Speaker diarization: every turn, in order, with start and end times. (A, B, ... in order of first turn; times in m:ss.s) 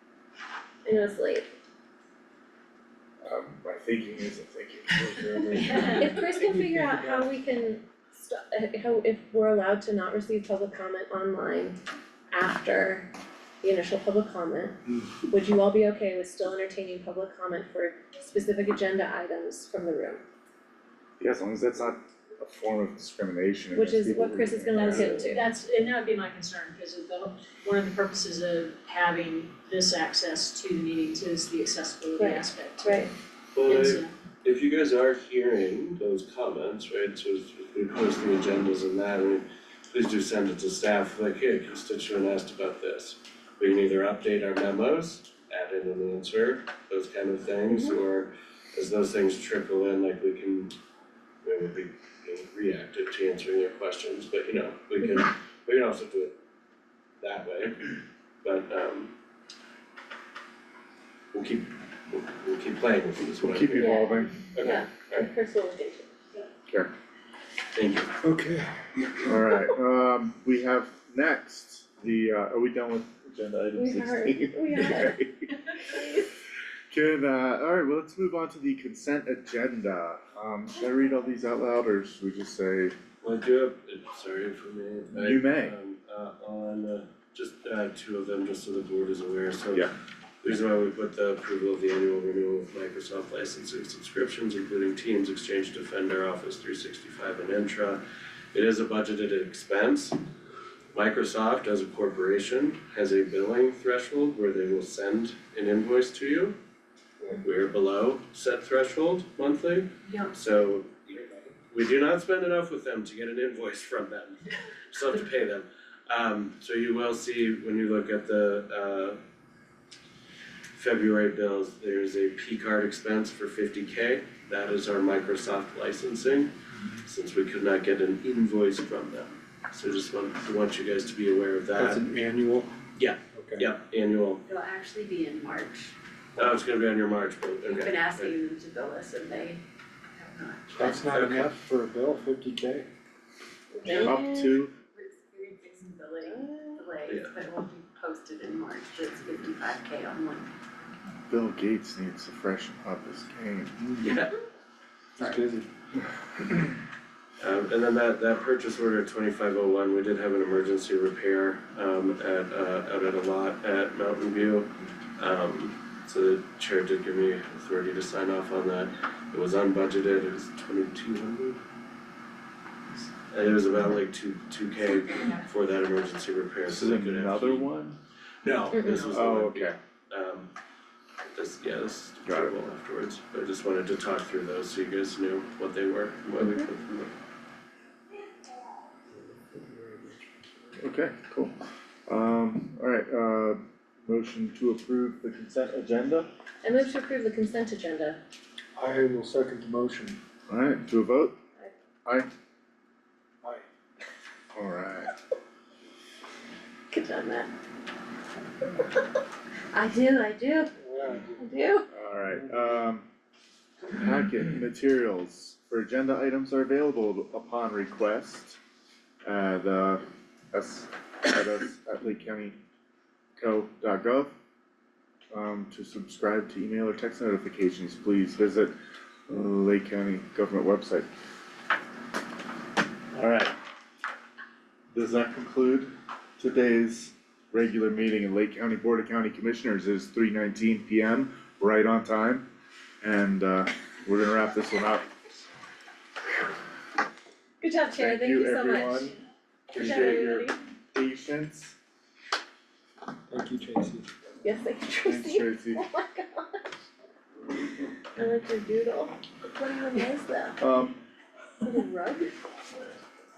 0:00.8-0:01.5 A
0:03.2-0:06.1 B
0:05.8-0:11.8 A
0:06.3-0:07.3 C
0:12.3-0:13.1 A
0:13.6-0:20.2 A
0:21.2-0:25.4 B
0:23.8-0:25.5 A
0:24.8-0:33.1 D
0:32.2-0:33.1 A
0:33.5-0:50.7 E
0:33.6-0:34.1 D
0:51.4-0:56.4 E
0:57.2-0:57.9 E
0:58.4-0:59.1 E
1:01.3-1:03.9 E
1:03.4-1:04.5 B
1:03.7-1:06.1 A
1:04.5-1:05.3 E
1:07.8-1:08.1 E
1:08.2-1:09.2 C
1:09.3-1:15.5 B
1:13.8-1:16.3 A
1:16.9-1:23.0 B
1:23.2-1:29.9 E
1:25.1-1:25.8 B
1:30.4-1:38.0 E
1:38.5-1:40.2 E
1:40.9-1:46.6 E
1:47.4-1:59.2 E
1:50.1-1:50.4 F
2:00.7-2:06.5 E
2:07.1-2:12.0 E
2:11.8-2:12.7 C
2:13.0-2:14.4 E
2:13.3-2:13.7 C
2:14.5-2:15.9 F
2:16.4-2:18.4 E
2:17.7-2:19.6 F
2:20.2-2:21.2 F
2:20.7-2:22.9 C
2:21.1-2:21.6 E
2:23.7-2:24.4 A
2:23.9-2:30.5 F
2:23.9-2:24.7 B
2:26.2-2:26.8 A
2:27.1-2:27.4 E
2:31.3-2:33.8 B
2:34.0-2:34.3 E
2:35.2-2:35.7 C
2:37.4-2:51.6 E
2:53.3-2:57.7 E
2:56.7-2:58.0 B
2:58.4-3:00.5 E
2:58.7-2:59.2 A
2:58.9-2:59.8 B
3:01.3-3:07.1 E
3:02.3-3:02.6 B
3:06.4-3:06.7 A
3:09.5-3:10.0 C
3:10.8-3:16.3 B
3:16.6-3:18.2 A
3:18.8-3:20.2 C
3:20.5-3:21.4 B
3:24.6-3:25.1 B
3:26.9-3:27.5 A
3:29.7-3:30.7 A
3:30.8-3:31.5 C
3:31.4-3:31.9 A
3:31.9-3:33.1 B
3:32.3-3:32.8 C
3:33.9-3:38.6 B
3:39.2-3:42.6 B
3:43.4-3:44.3 B
3:45.3-3:48.7 B
3:49.3-3:51.1 B
3:53.1-3:53.5 B
3:54.9-4:02.5 B
4:03.0-4:05.1 B
4:07.6-4:09.2 A
4:08.0-4:09.2 B
4:09.7-4:10.6 A
4:09.7-4:11.8 B
4:13.3-4:14.1 C
4:14.4-4:16.7 A
4:15.0-4:15.8 B
4:18.2-4:20.6 A
4:20.6-4:21.0 B
4:21.6-4:22.3 A